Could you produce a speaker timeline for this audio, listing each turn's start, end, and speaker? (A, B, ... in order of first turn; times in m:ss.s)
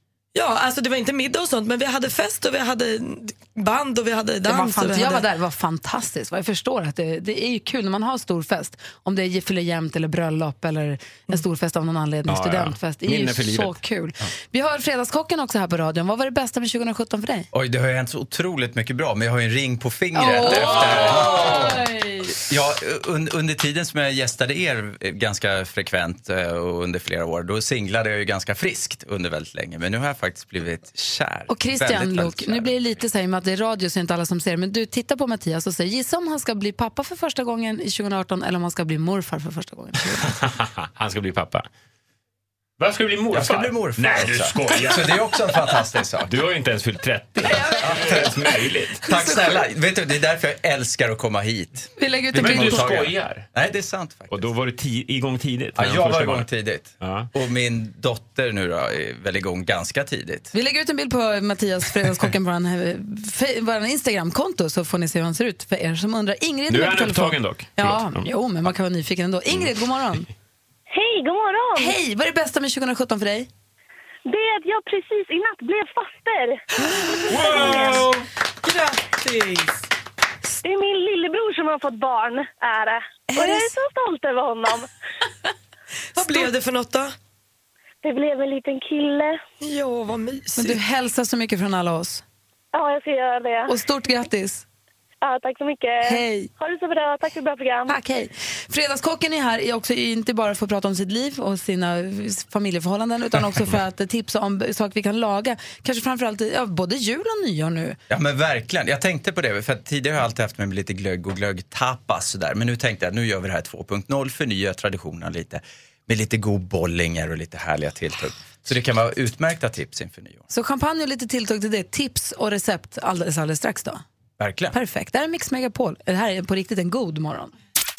0:00.3-0:05.2 A
0:04.4-0:17.5 B
0:12.3-0:13.8 C
0:17.5-0:32.8 D
0:20.2-0:22.3 B
0:20.5-0:21.5 C
0:31.5-0:40.4 B
0:40.3-0:41.7 C
0:42.8-0:45.3 C
0:43.3-0:46.4 D
0:46.2-0:49.1 C
0:47.5-0:47.9 B
0:47.8-0:48.4 D
0:49.0-0:54.5 D
0:52.0-0:52.9 B
0:52.3-0:53.5 C
0:54.3-0:56.5 C
0:55.8-1:00.5 D
0:57.0-0:57.3 C
1:00.5-1:10.3 B
1:06.7-1:08.3 C
1:10.9-1:12.0 E
1:11.8-1:13.5 B
1:14.3-1:16.6 E
1:16.9-1:18.1 A
1:17.3-1:18.3 C
1:17.3-1:18.0 B
1:18.6-1:19.8 A
1:20.6-1:24.9 E
1:23.3-1:23.8 B
1:26.2-1:26.5 B
1:26.2-1:27.2 A
1:28.0-1:29.4 E
1:29.6-1:30.8 A
1:30.6-1:32.2 B
1:32.7-1:33.8 E
1:33.7-1:34.6 B
1:35.2-1:38.0 E
1:36.0-1:36.5 B
1:37.9-1:48.0 B
1:48.1-2:00.4 D
2:00.5-2:04.0 B
2:04.4-2:04.8 D
2:04.7-2:07.5 B